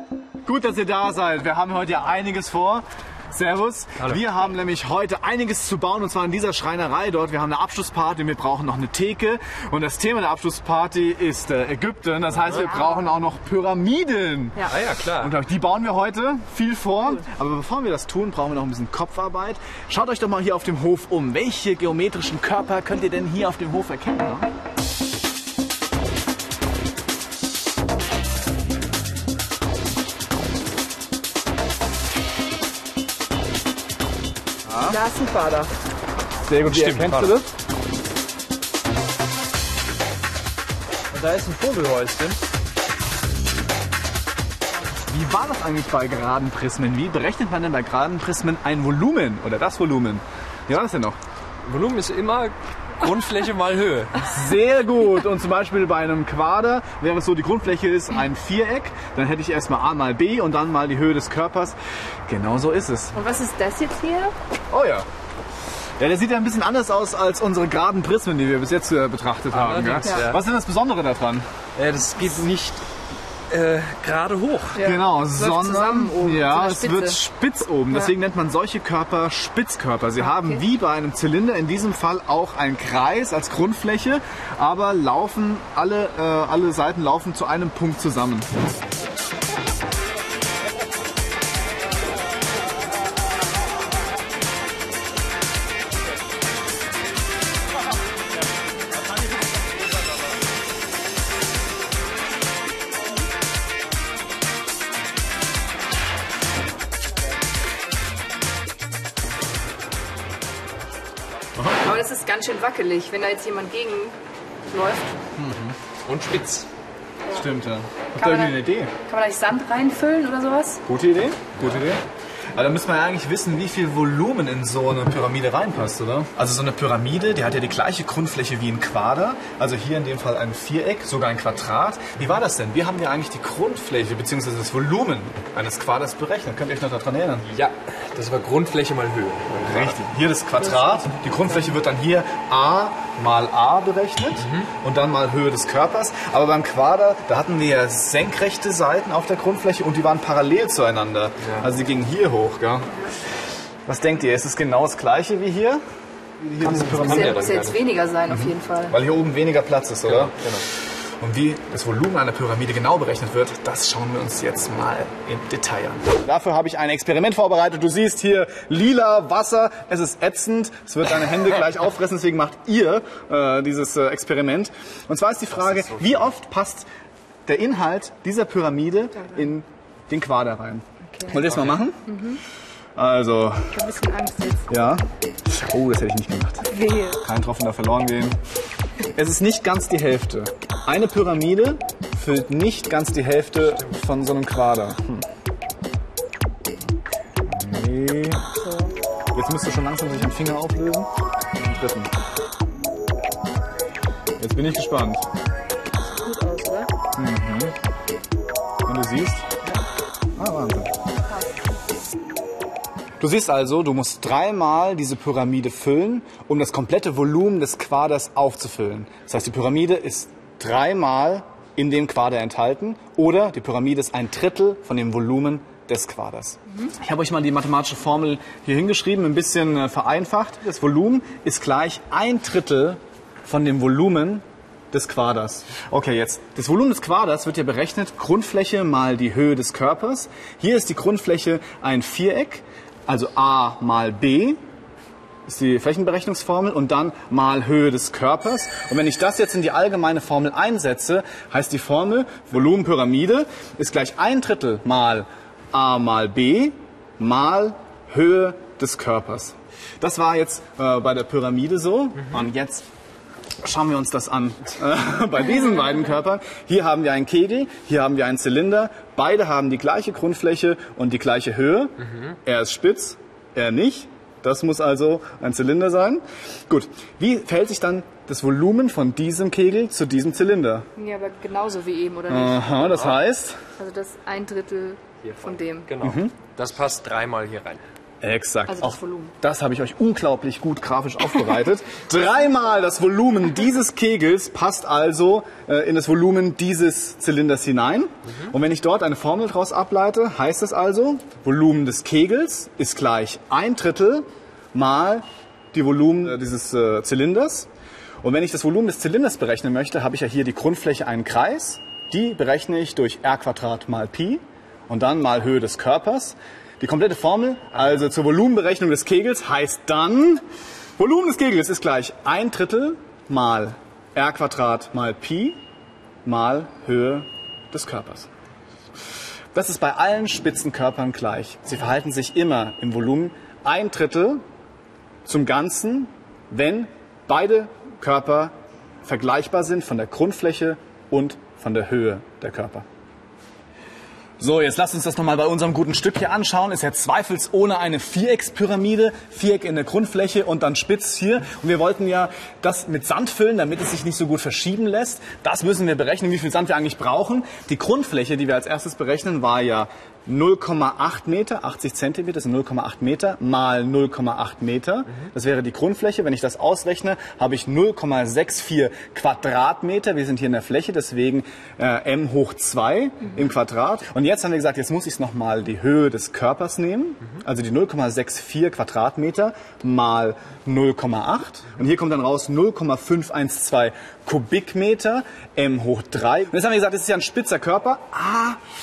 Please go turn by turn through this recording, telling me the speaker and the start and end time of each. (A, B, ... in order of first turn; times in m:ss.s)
0:00.4-0:24.5 A
0:12.6-0:12.9 B
0:14.6-0:15.4 C
0:34.7-0:35.0 A
0:34.8-0:35.7 B
0:36.4-0:37.5 A
0:36.7-0:37.3 C
0:41.1-0:42.4 C
0:45.1-0:51.2 A
0:51.6-0:54.3 C
0:54.2-1:03.2 A
1:03.2-1:04.3 B
1:04.7-1:05.1 A
1:06.0-1:11.5 A
1:09.5-1:10.4 C
1:11.8-1:12.8 C
1:13.5-1:14.8 C
1:14.8-1:17.2 B
1:14.8-1:28.5 A
1:20.2-1:20.6 B
1:51.8-1:54.2 B
1:54.7-1:55.2 B
1:55.4-1:55.8 A
1:56.0-1:56.7 C
1:57.3-1:58.9 A
1:58.2-2:00.8 B
2:00.9-2:02.0 A
2:02.5-2:17.5 A
2:17.5-2:20.0 C
2:19.6-2:33.0 A
2:24.4-2:24.7 C
2:33.9-2:35.8 A
2:36.4-2:37.6 A
2:36.6-2:37.9 C
2:36.8-2:39.0 B
2:38.3-2:40.3 A
2:40.0-2:40.6 C
2:41.2-2:56.9 A
2:55.5-2:56.3 C
2:57.5-3:02.1 A
3:01.1-3:01.4 B
3:01.4-3:01.8 C
3:02.1-3:02.4 B
3:03.0-3:03.8 A
3:03.7-3:04.7 B
3:04.7-3:08.4 A
3:06.7-3:07.2 B
3:09.1-3:15.3 A
3:17.4-3:18.5 A
3:18.6-3:18.9 B
3:19.3-3:22.1 A
3:24.4-3:25.3 A
3:26.0-3:26.9 B
3:27.2-3:27.7 A
3:28.9-3:29.4 A
3:30.4-3:30.9 A
3:33.2-4:04.6 A
4:05.5-4:22.8 A
4:23.6-4:40.9 A
4:41.0-4:43.0 B
4:42.3-4:43.6 A
4:42.9-4:43.2 C
4:43.8-4:45.9 B
4:45.2-4:47.8 C
4:46.0-4:46.4 A
4:48.2-5:07.7 A
4:48.7-4:49.3 B
5:08.2-5:20.4 A
5:21.0-5:25.6 A
5:26.2-5:28.3 A
5:29.5-5:34.4 A
5:35.2-5:38.5 A
5:39.0-5:42.8 A
5:44.4-6:28.6 A